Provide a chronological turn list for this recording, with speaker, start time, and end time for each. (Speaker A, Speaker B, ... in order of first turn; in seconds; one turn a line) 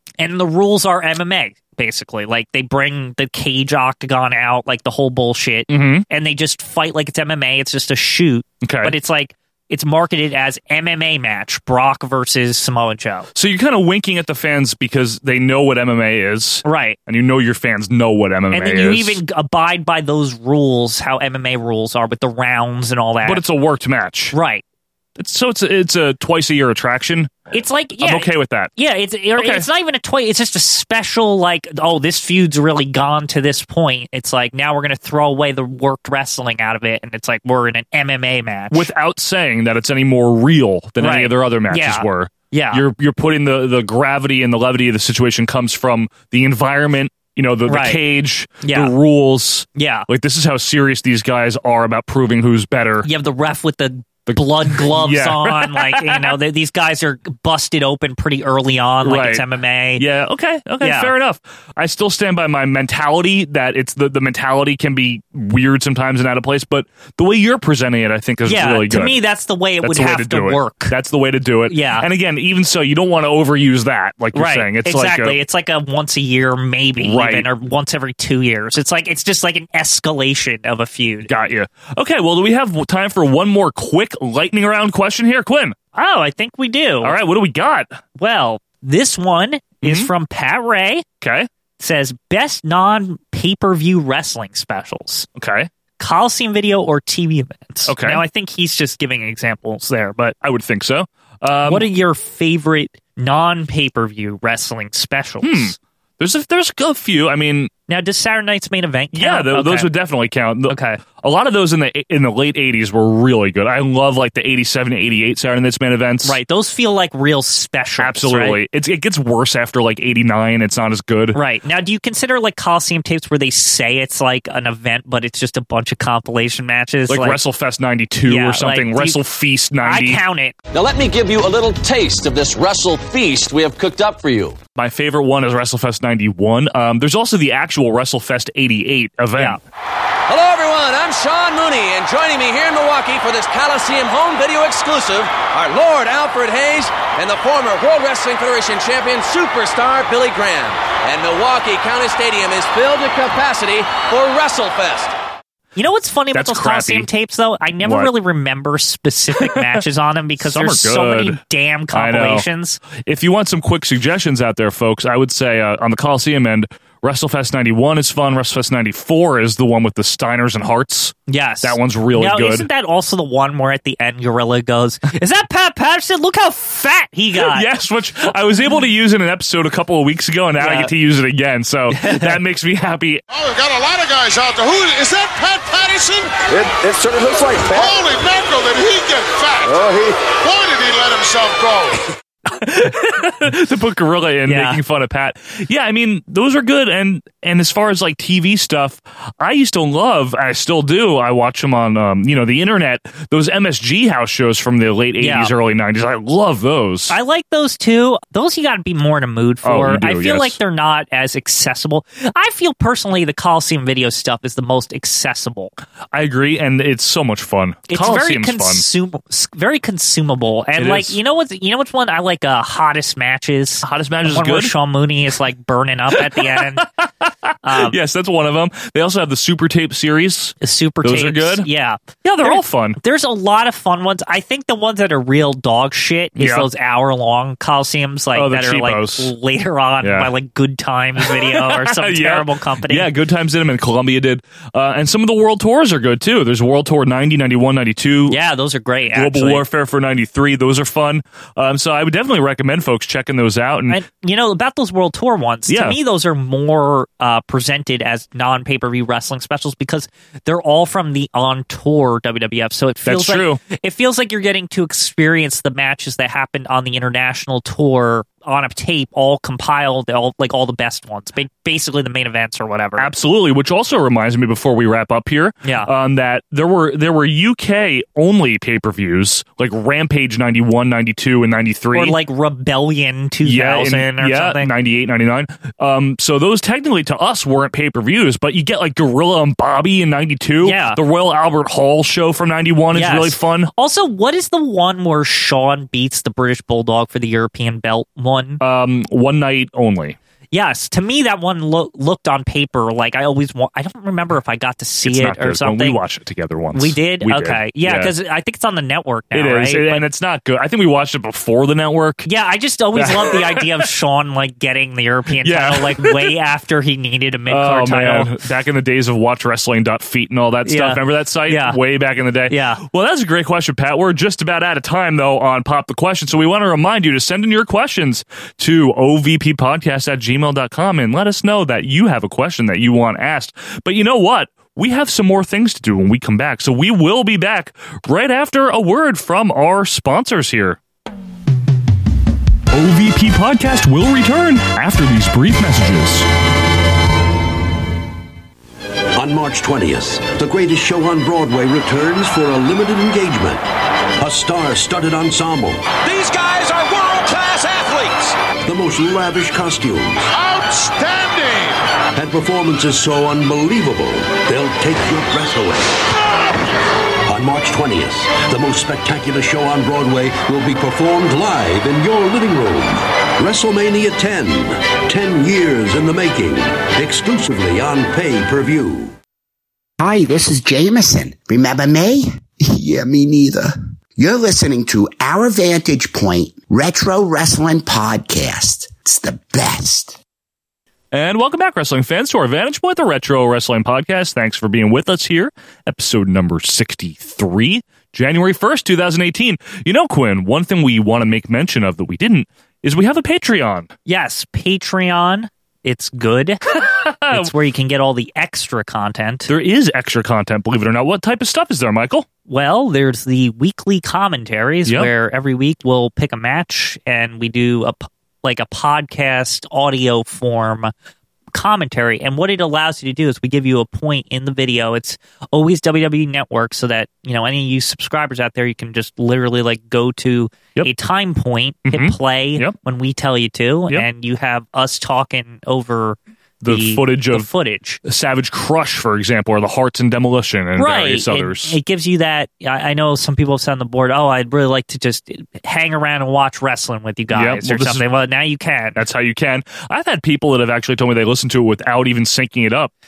Speaker A: 0.2-13.3
Speaker B: 5.7-6.1
Speaker B: 8.6-8.9
Speaker B: 13.3-19.2
Speaker A: 16.6-17.0
Speaker A: 18.5-23.4
Speaker B: 23.2-24.4
Speaker A: 24.3-24.6
Speaker B: 25.2-27.5
Speaker A: 27.5-38.9
Speaker B: 28.0-28.7
Speaker B: 29.4-29.7
Speaker B: 38.7-53.1
Speaker A: 41.0-42.8
Speaker A: 47.7-48.0
Speaker A: 48.6-48.9
Speaker A: 49.8-50.1
Speaker A: 53.0-60.0
Speaker B: 54.3-56.4
Speaker B: 59.0-59.5
Speaker B: 60.0-69.2
Speaker A: 60.8-61.1
Speaker A: 68.5-70.9
Speaker B: 69.8-75.4
Speaker A: 71.7-72.1
Speaker A: 74.3-81.3
Speaker B: 77.0-77.5
Speaker B: 81.3-85.8
Speaker A: 86.0-87.2
Speaker B: 87.0-88.0
Speaker A: 88.2-91.0
Speaker B: 89.8-90.1
Speaker B: 91.2-91.5
Speaker A: 91.8-95.3
Speaker B: 95.4-95.7
Speaker A: 96.0-100.3
Speaker B: 97.9-98.2
Speaker B: 100.4-101.9
Speaker A: 101.7-105.7
Speaker B: 105.4-107.7
Speaker A: 107.9-109.9
Speaker B: 109.1-116.4
Speaker A: 110.7-111.0
Speaker A: 116.2-118.6
Speaker B: 118.0-121.4
Speaker A: 121.3-127.4
Speaker B: 127.1-130.2
Speaker A: 128.3-129.2
Speaker A: 129.8-130.6
Speaker C: 130.7-134.6
Speaker B: 134.8-139.6
Speaker C: 140.3-155.1
Speaker A: 155.8-162.8
Speaker B: 156.3-157.1
Speaker B: 157.8-158.1
Speaker B: 159.4-159.8
Speaker B: 160.4-161.4
Speaker B: 161.9-172.7
Speaker A: 171.3-177.7
Speaker B: 177.3-183.2
Speaker A: 180.6-180.9
Speaker A: 181.9-182.3
Speaker D: 183.3-186.4
Speaker E: 186.5-188.0
Speaker D: 187.7-192.1
Speaker E: 189.7-190.3
Speaker B: 192.5-207.2
Speaker A: 194.5-194.8
Speaker A: 205.2-205.5
Speaker A: 207.1-215.7
Speaker B: 209.6-210.6
Speaker B: 216.1-218.8
Speaker A: 217.9-226.9
Speaker B: 220.8-221.2
Speaker B: 223.8-224.7
Speaker B: 226.1-231.7
Speaker A: 227.6-228.0
Speaker A: 230.6-243.1
Speaker B: 232.2-233.0
Speaker B: 236.4-236.7
Speaker B: 238.3-239.3
Speaker B: 240.0-240.3
Speaker B: 241.2-248.4
Speaker A: 248.3-249.6
Speaker B: 249.1-254.0
Speaker A: 253.9-273.1
Speaker B: 255.7-256.0
Speaker B: 263.1-263.6
Speaker B: 273.0-282.2
Speaker A: 275.6-275.9
Speaker A: 281.9-284.7
Speaker B: 283.4-293.7
Speaker A: 290.6-291.0
Speaker A: 292.9-298.6
Speaker B: 298.6-300.2
Speaker A: 300.5-306.0
Speaker B: 305.1-308.1
Speaker A: 306.7-310.0
Speaker B: 309.3-312.3
Speaker A: 312.3-318.3
Speaker B: 312.9-313.8
Speaker B: 315.4-316.4
Speaker B: 317.5-340.8
Speaker A: 320.7-321.8
Speaker A: 322.5-322.8
Speaker B: 342.7-346.3
Speaker F: 349.1-353.6
Speaker F: 354.2-356.0
Speaker C: 356.0-358.4
Speaker F: 358.6-360.3
Speaker D: 360.3-361.8
Speaker F: 362.1-366.0
Speaker F: 367.3-379.1
Speaker G: 380.0-390.2
Speaker B: 391.1-403.9
Speaker A: 404.1-406.6
Speaker B: 406.7-407.5
Speaker A: 407.3-409.5
Speaker B: 409.5-412.3
Speaker A: 412.5-420.9
Speaker A: 421.5-438.0
Speaker B: 431.9-432.8
Speaker B: 436.6-437.5
Speaker B: 438.0-441.8
Speaker A: 440.8-449.0
Speaker B: 447.3-448.0
Speaker B: 449.0-452.9